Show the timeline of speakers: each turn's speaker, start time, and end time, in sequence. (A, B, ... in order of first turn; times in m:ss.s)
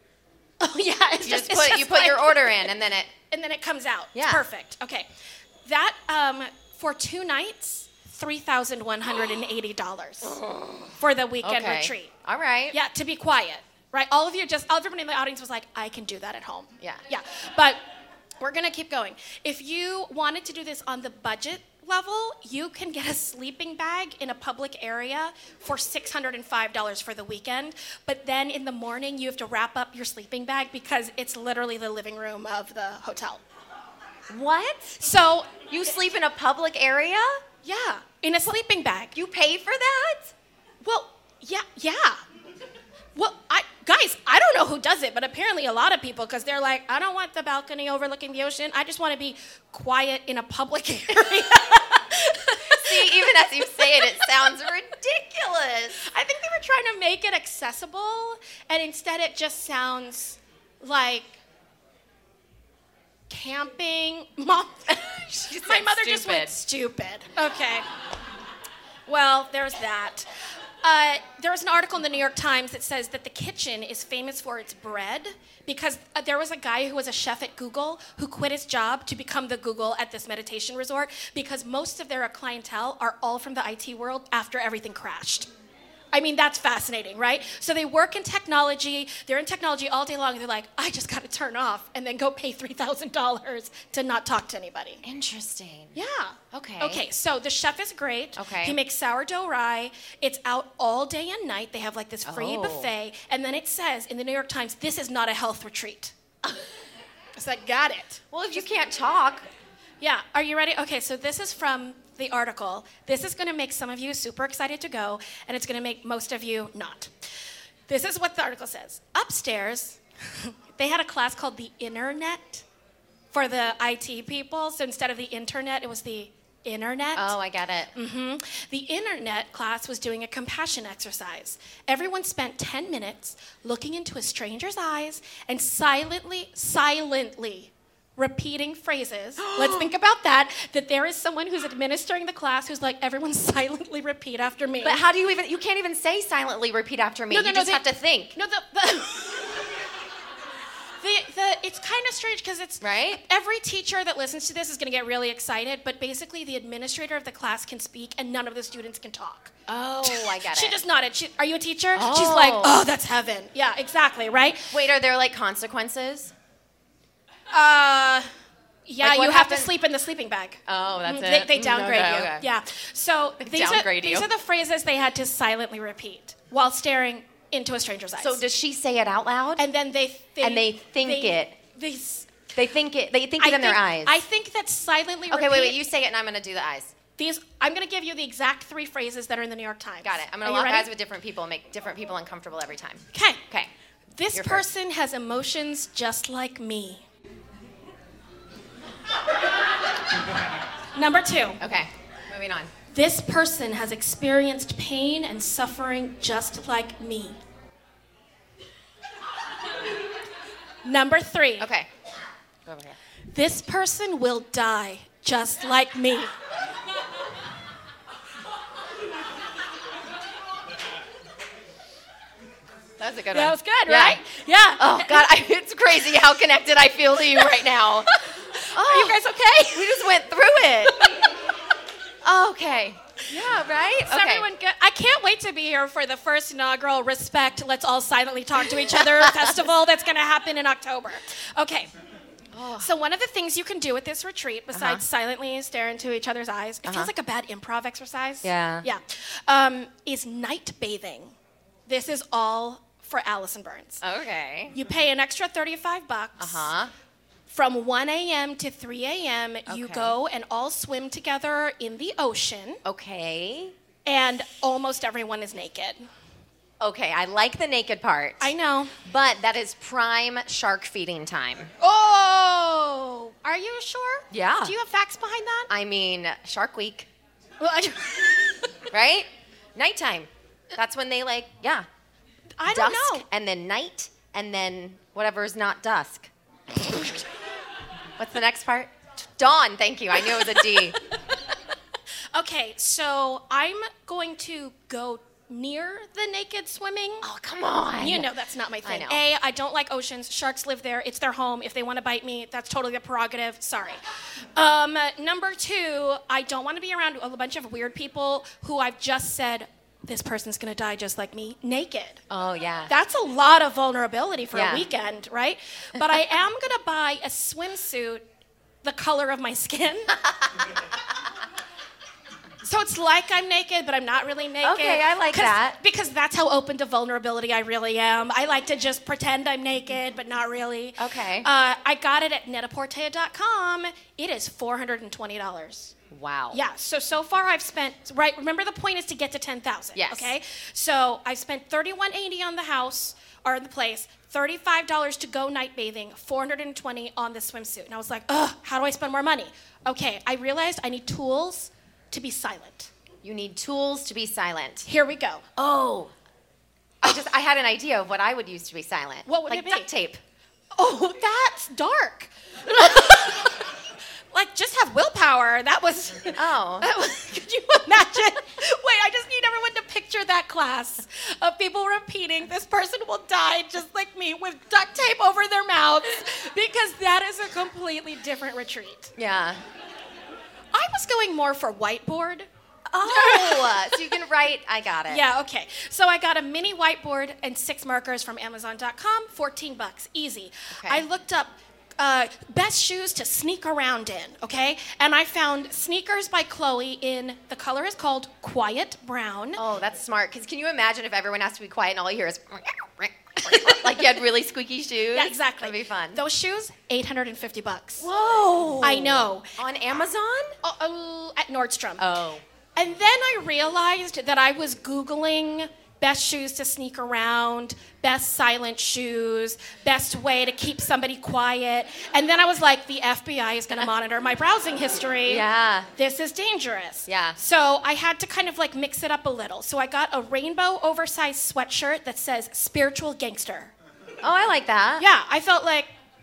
0:00.6-0:02.7 A
0:01.2-0:03.1 B
0:03.3-0:05.1 A
0:04.1-0:04.4 B
0:05.6-0:10.4 A
0:10.2-0:12.8 B
0:11.0-0:12.1 A
0:12.7-0:17.8 A
0:18.4-0:33.4 A
0:34.3-0:35.0 B
0:35.0-0:35.6 A
0:35.7-0:37.4 B
0:37.6-0:39.1 A
0:39.1-0:40.3 B
0:40.8-0:42.2 A
0:43.2-0:54.4 A
0:52.7-0:56.0 B
0:56.0-1:01.4 A
1:03.3-1:07.9 A
1:05.3-1:06.5 B
1:09.1-1:10.3 A
1:10.8-1:25.5 A
1:26.1-1:35.0 A
1:35.0-1:36.0 B
1:35.9-1:46.1 A
1:36.5-1:37.0 B
1:38.4-1:38.8 B
1:42.2-1:42.9 B
1:47.4-1:48.2 A
1:48.3-1:49.4 B
1:50.0-1:57.1 A
1:57.9-2:02.6 A
2:03.3-2:07.4 A
2:07.1-2:07.9 B
2:07.9-2:25.0 A
2:19.4-2:19.9 B
2:24.8-2:28.4 B
2:27.3-2:29.5 A
2:31.0-2:44.8 A
2:32.8-2:33.2 B
2:39.7-2:40.8 B
2:41.9-2:42.8 B
2:44.7-2:46.3 B
2:47.5-2:48.3 A
2:48.8-2:58.4 A
2:49.0-2:49.7 B
2:50.7-2:52.5 B
2:53.4-2:54.3 B
2:58.2-2:59.6 B
2:59.6-3:02.3 A
3:00.4-3:01.5 B
3:02.5-3:04.2 B
3:03.4-3:05.8 A
3:05.3-3:06.9 B
3:07.2-3:10.9 A
3:10.0-3:13.7 B
3:13.1-3:13.4 A
3:14.2-3:17.0 A
3:14.3-3:14.6 B
3:20.9-3:21.6 A
3:21.6-3:22.7 B
3:22.9-3:27.4 A
3:30.8-3:31.7 A
3:31.6-3:31.9 B
3:32.6-3:33.0 B
3:33.3-3:36.3 A
3:43.0-3:44.2 B
3:43.3-3:45.3 A
3:44.8-3:48.2 B
3:48.2-3:50.1 A
3:48.7-3:51.2 B
3:50.9-3:51.2 A
3:52.2-3:54.5 B
3:54.0-4:01.9 A
3:58.9-3:59.6 B
4:02.5-4:02.9 B
4:02.8-4:11.3 A
4:04.7-4:05.0 B
4:06.8-4:07.1 B
4:08.4-4:08.8 B
4:11.9-4:14.0 A
4:14.0-4:14.8 B
4:14.7-4:16.7 A
4:16.4-4:16.9 B
4:17.5-4:22.8 A
4:19.6-4:20.2 B
4:22.8-4:23.7 B
4:24.0-4:26.1 A
4:26.8-4:31.7 B
4:28.4-4:29.0 A
4:31.8-4:35.7 A
4:34.3-4:34.8 B
4:35.7-4:37.1 B
4:37.6-4:38.8 A
4:38.9-4:41.8 B
4:42.6-4:43.2 A
4:42.7-4:46.3 B
4:48.2-4:51.0 B
4:50.2-4:50.9 A
4:52.3-4:57.2 A
4:57.2-4:58.3 B
4:58.0-5:04.0 A
4:58.8-4:59.2 B
5:04.6-5:12.2 A
5:12.3-5:12.9 B
5:12.9-5:18.2 A
5:14.5-5:14.9 B
5:18.8-5:20.2 A
5:22.6-5:35.9 A
5:24.6-5:25.8 B
5:31.0-5:31.5 B
5:36.1-5:36.6 B
5:36.5-5:52.9 A
5:39.9-5:40.4 B
5:53.2-5:54.9 B
5:54.8-5:55.4 A
5:55.6-5:56.1 B
5:57.0-6:00.2 B
5:59.2-5:59.9 A
6:00.7-6:03.7 A
6:04.3-6:19.1 A
6:06.3-6:06.9 B
6:19.2-6:19.6 B
6:20.7-6:22.5 A
6:22.9-6:25.2 B
6:23.0-6:24.2 A
6:25.1-6:39.6 A
6:30.7-6:31.0 B
6:39.6-6:46.2 B
6:43.5-6:43.9 A
6:45.1-6:48.1 A
6:48.0-6:50.6 B
6:48.8-6:49.5 A
6:50.6-6:52.1 A
6:52.0-6:52.4 B
6:52.8-7:05.4 A
7:05.2-7:05.9 B
7:06.0-7:13.7 A
7:07.1-7:07.4 B
7:14.2-7:15.0 B
7:15.0-7:15.9 A